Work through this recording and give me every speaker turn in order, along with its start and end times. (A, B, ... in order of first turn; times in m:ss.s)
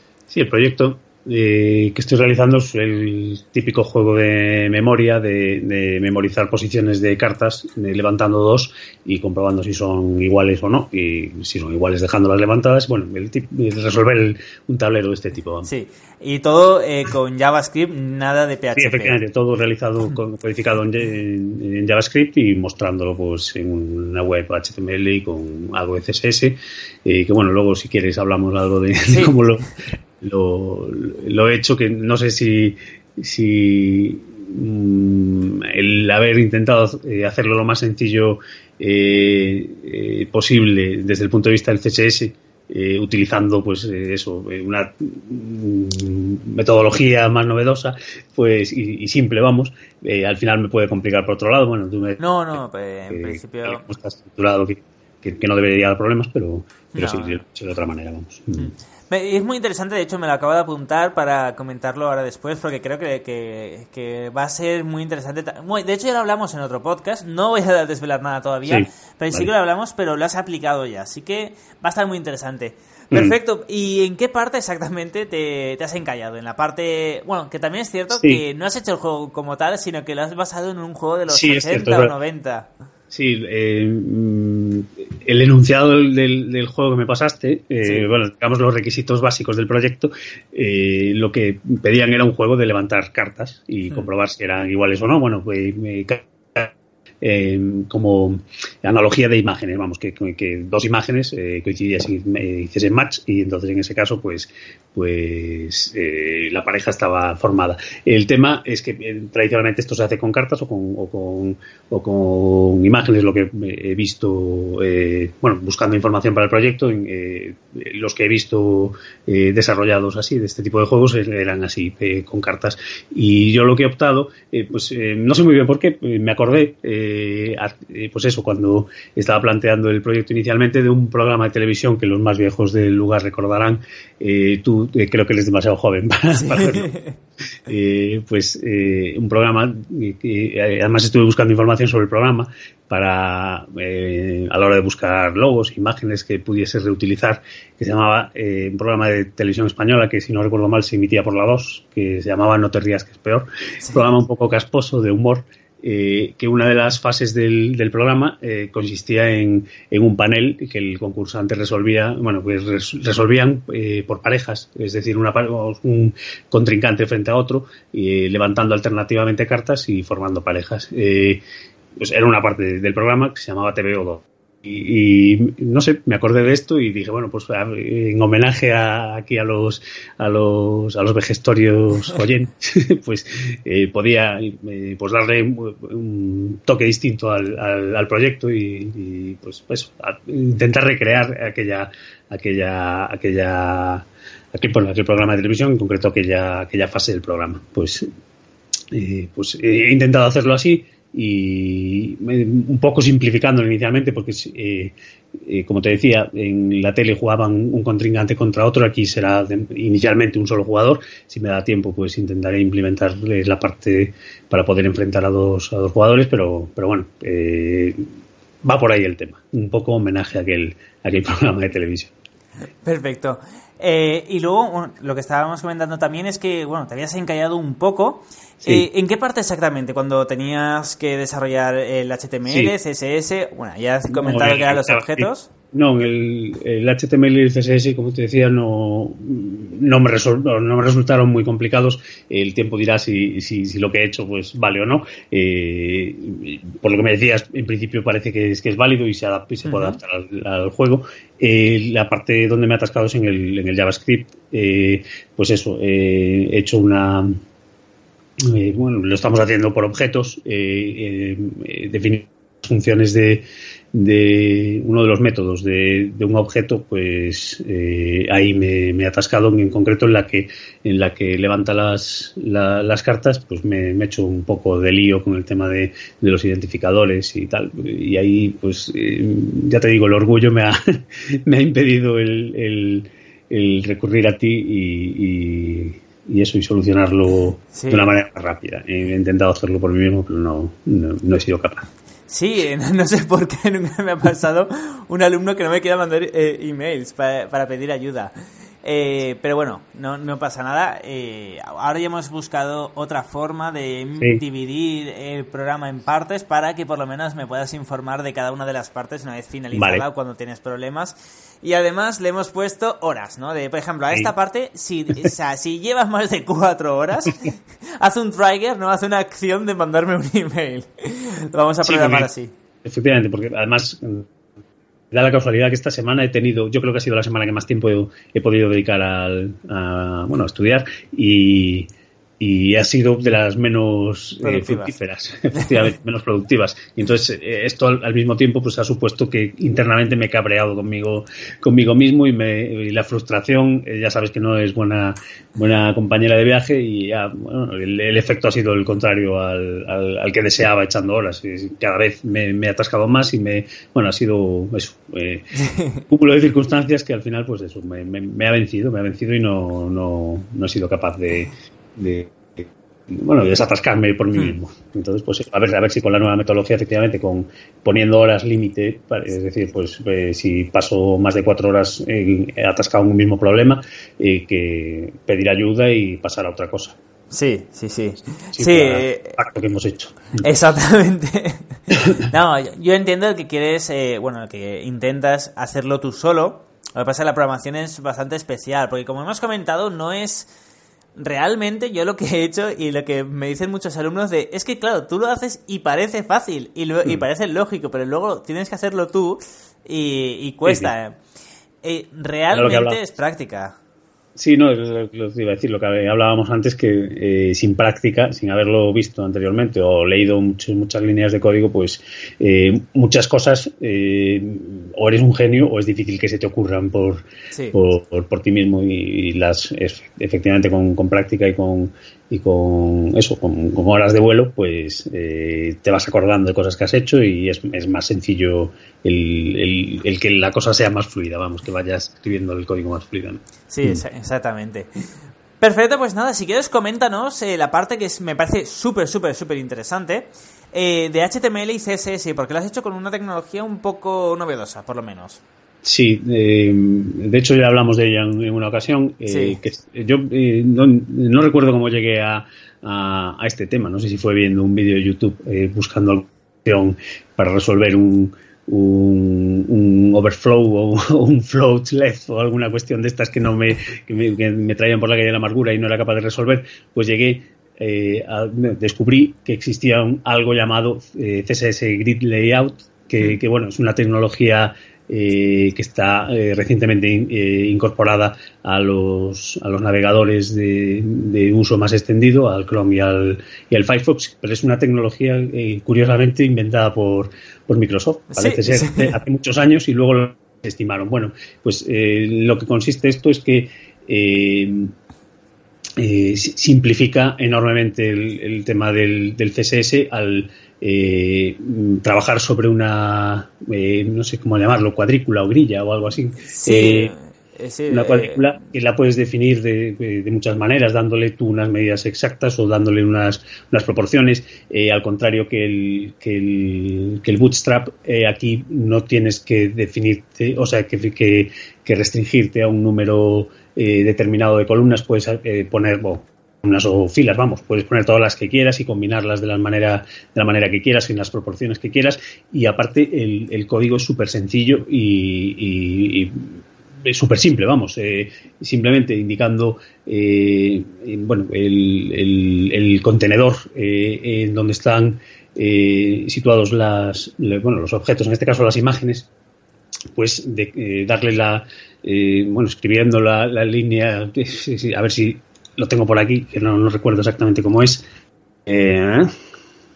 0:00.3-0:15.7 A
0:15.6-0:19.2 B
0:18.8-0:29.7 A
0:29.1-0:29.4 B
0:30.2-0:52.2 A
0:52.2-0:53.8 B
0:53.1-0:58.7 A
0:56.9-0:57.4 B
0:58.6-1:22.7 B
1:08.6-1:09.5 A
1:18.1-1:18.4 A
1:21.3-1:22.1 A
1:23.1-2:16.9 A
2:16.3-2:17.2 B
2:17.7-2:51.4 A
2:52.0-3:18.1 A
3:18.9-3:38.0 A
3:38.6-3:42.1 A
3:42.8-3:55.5 B
3:48.6-3:48.9 A
3:52.5-3:52.7 A
3:54.1-4:17.4 A
4:09.6-4:10.0 B
4:18.4-4:51.9 A
4:47.7-4:48.1 B
4:52.3-5:22.5 B
5:09.7-5:10.0 A
5:21.8-5:22.3 A
5:22.8-5:24.3 A
5:25.1-5:31.9 A
5:32.4-6:17.0 A
5:34.4-5:34.9 B
5:35.6-5:35.9 B
5:55.6-5:56.0 B
6:17.3-6:19.4 B
6:18.5-6:20.4 A
6:20.4-6:30.5 B
6:21.9-6:22.2 A
6:31.2-6:41.2 B
6:40.6-6:40.9 A
6:41.8-6:43.8 B
6:42.5-6:43.0 A
6:44.4-7:14.0 A
7:13.7-7:15.0 B
7:15.6-7:25.4 B
7:25.8-8:14.9 A
7:29.3-7:29.6 B
8:08.3-8:09.1 B
8:16.0-8:27.1 A
8:26.5-8:28.5 B
8:27.9-9:09.3 A
9:10.1-9:18.0 A
9:18.7-9:19.3 A